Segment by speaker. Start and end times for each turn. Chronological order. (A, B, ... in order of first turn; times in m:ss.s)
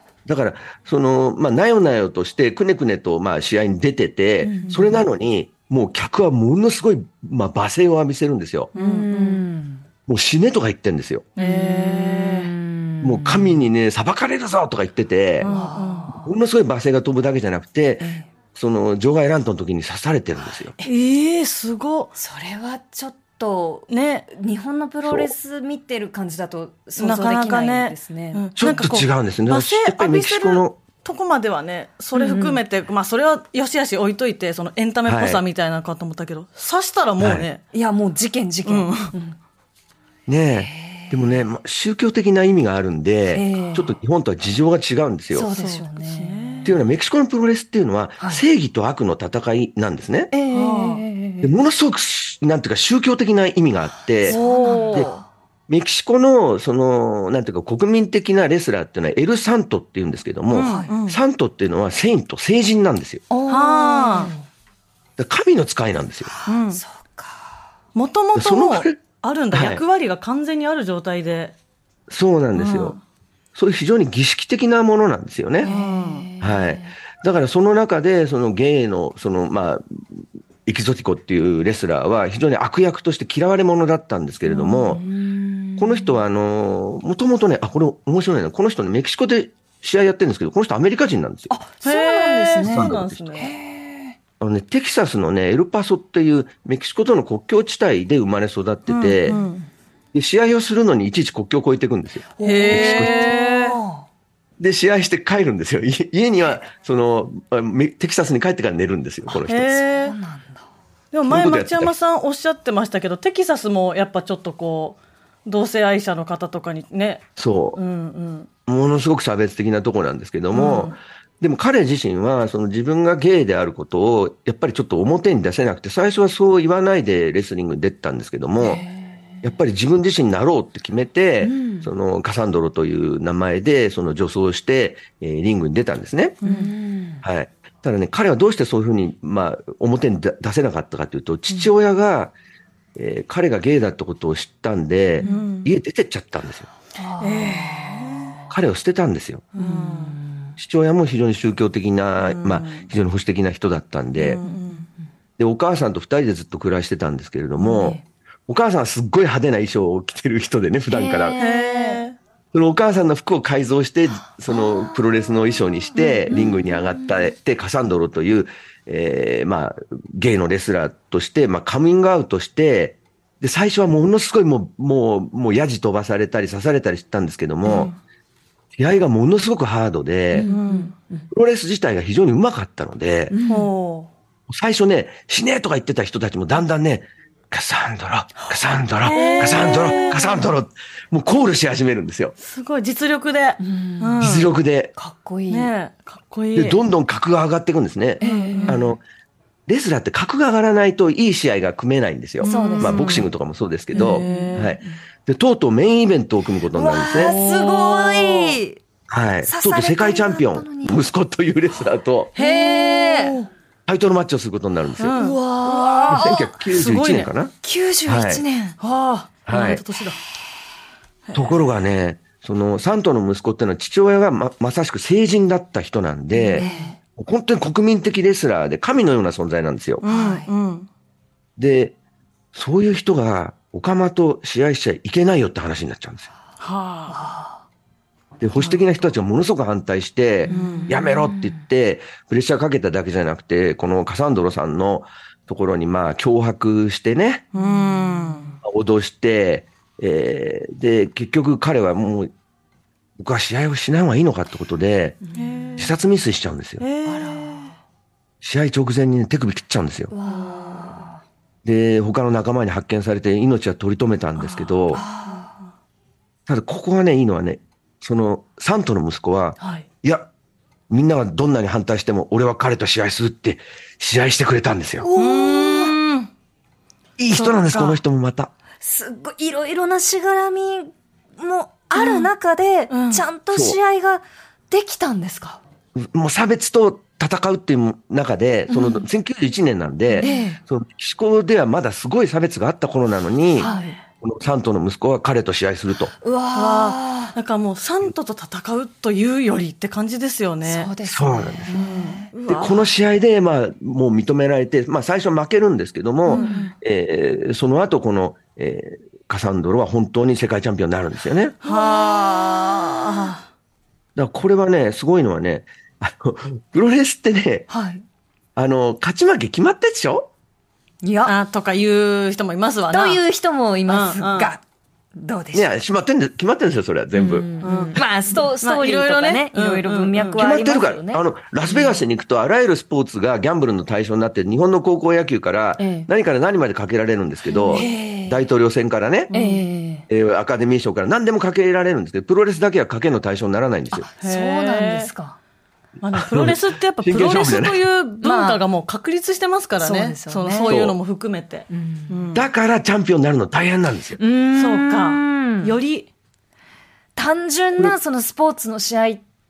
0:00.2-0:08.7 A
0:04.4-0:05.0 B
0:08.7-0:09.4 C
0:08.7-0:09.8 B
0:10.1-0:11.3 A
0:11.4-0:12.5 C
0:11.4-0:13.6 B
0:13.0-0:15.5 A
0:15.4-0:16.1 C
0:15.4-0:16.3 B
0:16.2-0:20.7 A
0:18.0-0:18.3 B
0:20.8-0:22.1 C
0:22.2-0:28.4 B
0:23.9-0:24.3 C
0:25.0-0:25.3 A
0:27.0-0:37.6 C
0:28.6-0:30.8 A
0:32.1-0:32.6 B
0:35.0-0:35.4 A
0:37.2-0:37.4 A
0:37.7-0:39.4 B
0:38.6-0:39.1 C
0:40.3-0:45.5 A
0:40.6-0:41.4 B
0:43.3-0:43.9 B
0:45.3-0:46.7 B
0:45.5-0:46.8 C
0:46.6-0:50.3 A
0:50.3-0:51.5 B
0:50.5-0:51.0 C
0:51.4-0:54.4 A
0:54.2-0:55.2 B
0:54.3-0:55.1 C
0:55.7-1:03.2 A
1:00.5-1:01.2 C
1:00.6-1:00.9 B
1:03.3-1:04.4 B
1:03.5-1:04.3 C
1:05.2-1:06.3 A
1:06.3-1:07.5 B
1:06.5-1:06.8 C
1:07.9-1:11.5 C
1:08.3-1:09.8 A
1:12.1-1:13.0 A
1:12.5-1:13.0 C
1:13.5-1:15.7 A
1:15.6-1:16.9 B
1:15.6-1:16.3 C
1:16.4-1:25.0 A
1:24.4-1:26.2 B
1:25.8-1:31.5 A
1:31.5-1:34.1 B
1:31.8-1:33.5 C
1:32.6-1:33.3 A
1:34.4-1:39.4 A
1:38.9-1:39.7 C
1:40.1-1:43.3 A
1:42.4-1:44.0 B
1:42.4-1:43.8 C
1:44.6-1:49.8 A
1:49.3-1:50.6 B
1:49.4-1:50.1 C
1:51.1-1:58.5 C
1:51.2-1:51.9 A
1:57.4-1:57.8 A
1:58.7-2:08.8 A
2:00.5-2:01.0 C
2:08.6-2:09.2 B
2:09.4-2:16.4 A
2:11.4-2:11.9 B
2:16.4-2:16.7 C
2:16.4-2:17.2 B
2:17.2-2:22.3 A
2:22.9-2:26.7 A
2:25.2-2:25.4 B
2:25.2-2:25.7 C
2:27.0-2:28.5 B
2:27.2-2:28.4 C
2:28.5-2:29.4 A
2:29.5-2:30.2 C
2:29.6-2:30.5 B
2:30.6-2:34.4 A
2:32.2-2:32.9 C
2:34.2-2:34.9 C
2:34.4-2:34.8 B
2:35.4-2:41.4 A
2:37.6-2:38.0 B
2:40.9-2:42.0 B
2:41.4-2:42.2 C
2:42.5-2:57.9 A
2:44.5-2:45.0 B
2:45.9-2:47.2 B
2:57.7-2:57.9 B
2:58.7-3:00.5 A
3:00.3-3:01.2 B
3:00.5-3:00.9 C
3:01.3-3:03.3 A
3:03.3-3:03.7 B
3:03.5-3:04.1 C
3:04.5-3:12.3 A
3:09.0-3:10.4 C
3:09.0-3:10.4 B
3:12.4-3:14.5 C
3:13.6-3:14.2 B
3:14.2-3:14.9 A
3:15.0-3:15.7 B
3:15.5-3:16.8 C
3:16.5-3:19.0 A
3:18.2-3:18.8 B
3:18.2-3:18.9 C
3:19.7-3:27.4 A
3:22.4-3:23.3 C
3:22.4-3:23.2 B
3:23.9-3:24.8 C
3:23.9-3:24.9 B
3:26.7-3:28.8 B
3:27.1-3:28.6 C
3:29.1-3:32.3 A
3:29.4-3:31.0 B
3:32.4-3:33.4 B
3:32.4-3:33.5 C
3:33.9-3:35.2 A
3:35.0-3:37.3 C
3:35.2-3:36.6 B
3:36.1-3:37.5 A
3:37.6-3:38.8 B
3:38.0-3:38.4 A
3:38.8-3:40.2 C
3:39.5-3:39.8 A
3:39.5-3:39.8 B
3:41.3-3:41.6 C
3:41.3-3:50.0 A
3:46.3-3:46.9 C
3:46.5-3:47.0 B
3:50.0-3:50.9 C
3:50.0-3:50.5 B
3:51.6-3:51.9 A
3:52.5-3:56.3 A
3:56.6-3:57.2 C
3:57.1-3:57.6 B
3:58.4-4:07.4 A
4:00.4-4:01.6 B
4:00.5-4:01.0 C
4:07.5-4:08.5 C
4:07.5-4:08.6 B
4:08.6-4:12.3 A
4:13.2-4:15.2 A
4:15.2-4:15.7 B
4:15.3-4:15.9 C
4:15.8-4:16.8 A
4:16.8-4:17.7 C
4:17.0-4:17.7 B
4:18.4-4:20.1 A
4:20.1-4:21.2 B
4:20.2-4:21.1 C
4:21.6-4:25.0 A
4:24.4-4:25.6 C
4:24.9-4:25.5 B
4:26.5-4:30.3 A
4:30.9-4:35.1 A
4:35.0-4:36.0 B
4:35.2-4:36.3 C
4:37.2-4:38.5 A
4:37.3-4:38.0 C
4:38.8-4:45.6 B
4:42.0-4:42.3 C
4:42.9-4:43.2 C
4:43.5-4:43.8 A
4:46.0-4:56.1 A
4:48.7-4:49.0 B
4:50.1-4:50.4 C
4:50.2-4:50.6 B
4:53.6-4:54.0 B
4:53.6-4:53.9 C
4:56.2-4:57.3 B
4:56.5-5:00.9 C
5:00.6-5:02.3 B
5:01.0-5:01.8 A
5:01.7-5:02.9 C
5:02.5-5:11.6 A
5:06.3-5:06.7 B
5:06.3-5:06.7 C
5:11.6-5:13.4 C
5:11.6-5:13.3 B
5:14.1-5:17.7 A
5:17.7-5:18.0 B
5:18.6-5:20.3 A
5:21.0-5:21.3 B
5:21.2-5:23.2 C
5:22.9-5:24.6 B
5:23.9-5:24.5 C
5:25.2-5:25.7 B
5:25.5-5:27.8 A
5:27.1-5:31.2 B
5:27.6-5:30.5 C
5:30.4-5:39.3 A
5:35.8-5:36.1 B
5:37.6-5:38.4 B
5:39.3-5:39.6 C
5:39.3-5:40.1 B
5:40.1-5:44.1 A
5:43.9-5:45.4 B
5:44.2-5:45.1 C
5:46.0-5:52.5 C
5:46.1-5:47.8 A
5:48.2-5:48.6 B
5:49.8-5:50.7 B
5:50.7-5:51.0 A
5:51.7-5:52.2 B
5:52.3-5:54.2 A
5:54.2-5:55.7 B
5:54.5-5:56.1 C
5:57.2-5:59.2 B